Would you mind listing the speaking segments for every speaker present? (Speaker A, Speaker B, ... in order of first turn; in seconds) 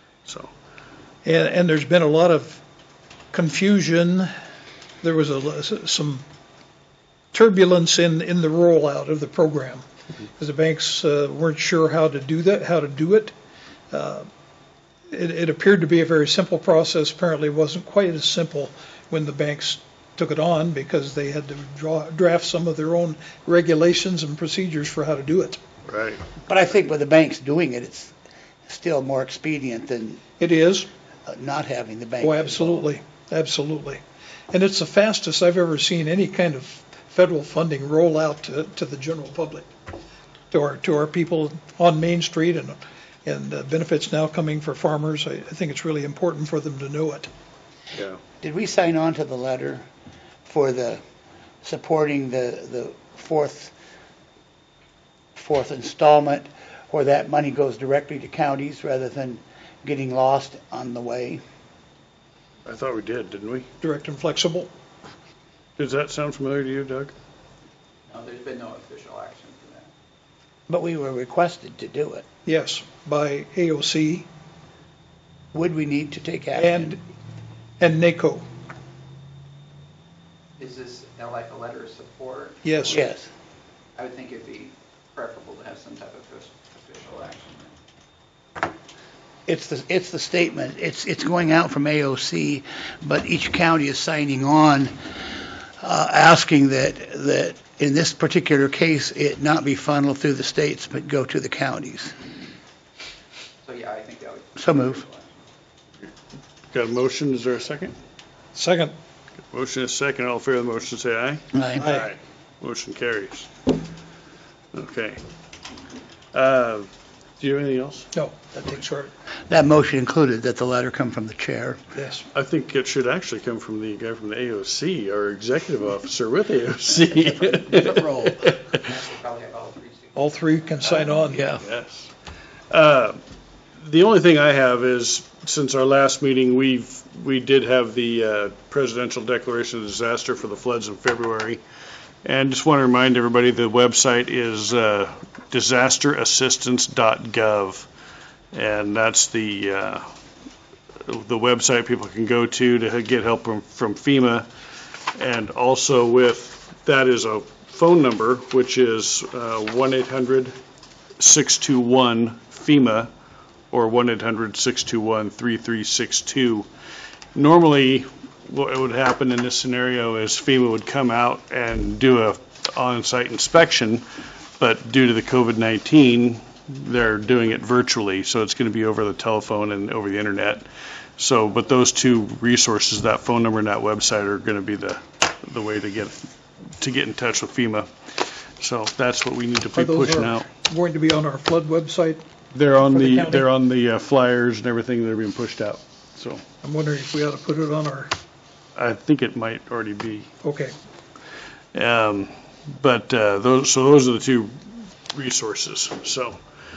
Speaker A: 0.3-0.5, 25.9-26.2, 47.9-48.2, 62.7-63.7, 65.8-67.1, 106.7-108.0, 109.5-113.5, 114.7-115.2, 116.3-118.1, 122.3-128.8, 131.5-132.1, 132.7-133.2, 133.8-141.6, 142.2-147.9, 148.5-150.1, 151.1-154.5, 155.2-160.6, 161.2-163.1, 163.7-166.7, 167.3-174.1, 174.6-180.7, 181.2-186.2, 186.8-187.9, 188.6-190.5, 192.5-196.4, 198.8-200.3, 201.7-206.4
Speaker B: 1.2-2.6, 3.3-4.3, 5.0-6.2, 7.3-9.8, 10.3-13.3, 13.9-14.3, 15.1-25.6, 30.4-30.9, 32.2-39.7, 40.5-47.3, 63.8-64.7, 72.5-74.3, 76.5-77.0, 77.8-78.5, 82.6-83.0, 108.5-109.0, 111.8-112.1, 118.2-119.1, 122.0-122.3, 130.2-131.5, 189.7-192.2, 192.9-193.5, 196.6-198.1, 200.4-200.7
Speaker C: 26.5-28.1, 28.7-30.2, 31.3-32.9, 48.4-49.9, 50.5-51.0, 51.6-53.7, 55.4-61.4, 70.7-72.2, 75.5-77.0, 82.9-83.3, 89.5-95.0, 95.8-102.1, 104.6-105.0, 111.5-111.9, 119.5-121.8, 127.7-128.4
Speaker D: 68.1-69.9, 80.6-83.0, 84.0-87.8, 103.6-105.4, 127.2-131.4